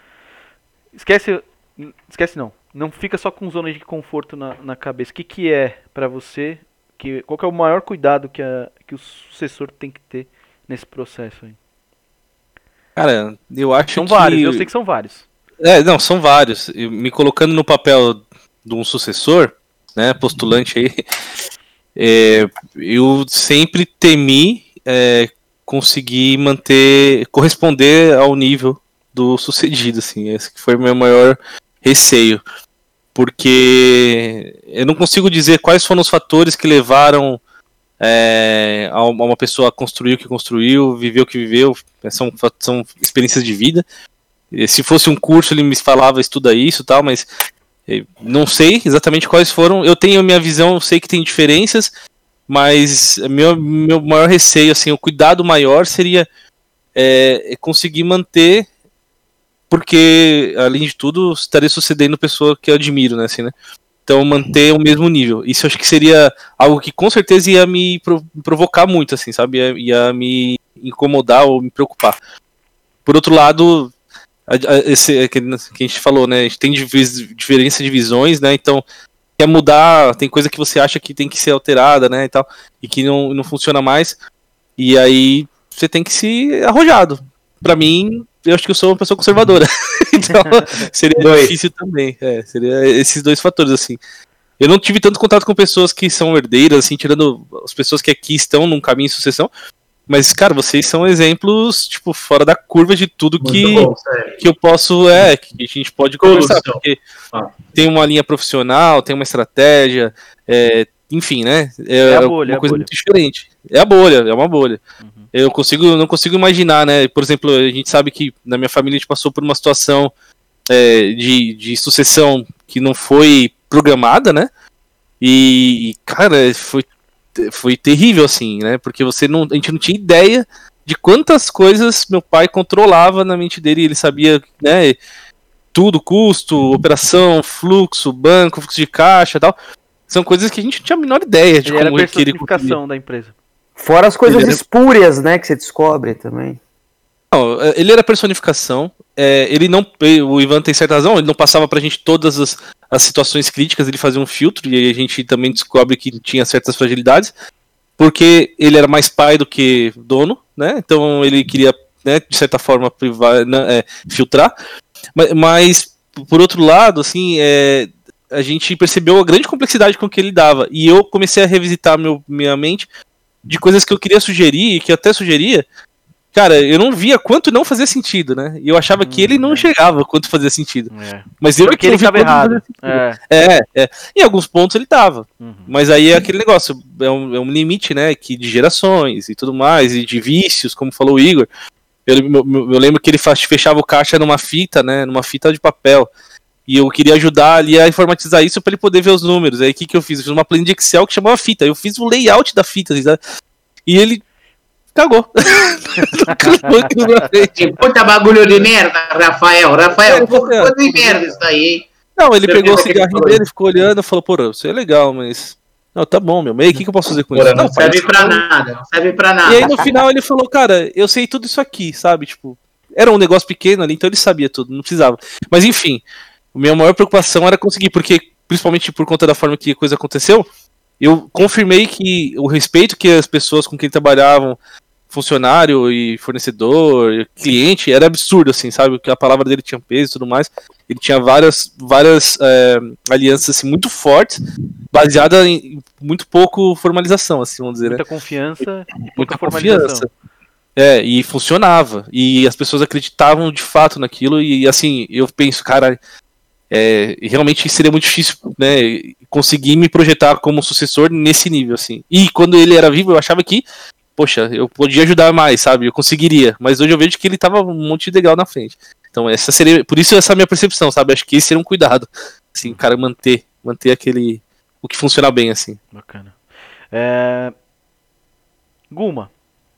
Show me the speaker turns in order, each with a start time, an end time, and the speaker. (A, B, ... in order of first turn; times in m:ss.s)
0:00.9-0:11.6 A
0:13.0-0:14.6 B
0:13.9-0:15.3 A
0:15.6-0:21.0 B
0:22.0-0:32.4 B
0:33.2-0:37.4 B
0:38.0-0:43.8 B
0:44.5-0:47.3 B
0:47.9-0:51.9 B
0:52.5-0:56.3 B
0:57.0-0:58.7 B
0:59.7-1:03.5 B
1:04.1-1:12.2 B
1:13.1-1:13.9 B
1:14.5-1:18.8 B
1:19.4-1:24.2 B
1:24.8-1:34.0 B
1:34.6-1:39.5 B
1:40.1-1:47.0 B
1:43.4-1:44.4 C
1:46.2-1:47.7 C
1:47.7-1:54.8 B
1:52.0-1:52.9 A
1:55.0-1:55.3 A
1:55.3-2:00.1 B
2:00.7-2:04.5 B
2:05.2-2:15.0 B
2:15.7-2:19.6 B
2:20.1-2:22.8 B
2:21.6-2:23.3 A
2:23.8-2:26.6 D
2:24.3-2:24.6 B
2:27.3-2:37.3 B
2:38.0-2:44.5 B
2:45.2-2:52.9 B
2:53.5-2:55.6 B
2:56.3-3:11.5 B
2:59.0-2:59.7 A
3:00.9-3:03.2 A
3:05.4-3:05.7 A
3:12.1-3:16.1 B
3:16.7-3:23.2 B
3:23.9-3:24.2 B
3:25.0-3:27.7 B
3:26.3-3:26.8 A
3:27.6-3:31.9 C
3:30.1-3:31.2 B
3:32.2-3:38.4 B
3:32.4-3:33.4 C
3:37.3-3:39.9 C
3:39.4-3:46.0 B
3:46.5-3:50.5 B
3:51.0-3:54.6 B
3:55.1-4:04.4 B
4:04.9-4:08.0 B
4:07.8-4:10.1 A
4:09.2-4:10.1 B
4:10.8-4:16.0 B
4:16.7-4:23.6 B
4:24.2-4:35.8 B
4:35.9-4:36.4 A
4:36.9-4:37.5 A
4:38.9-4:39.3 A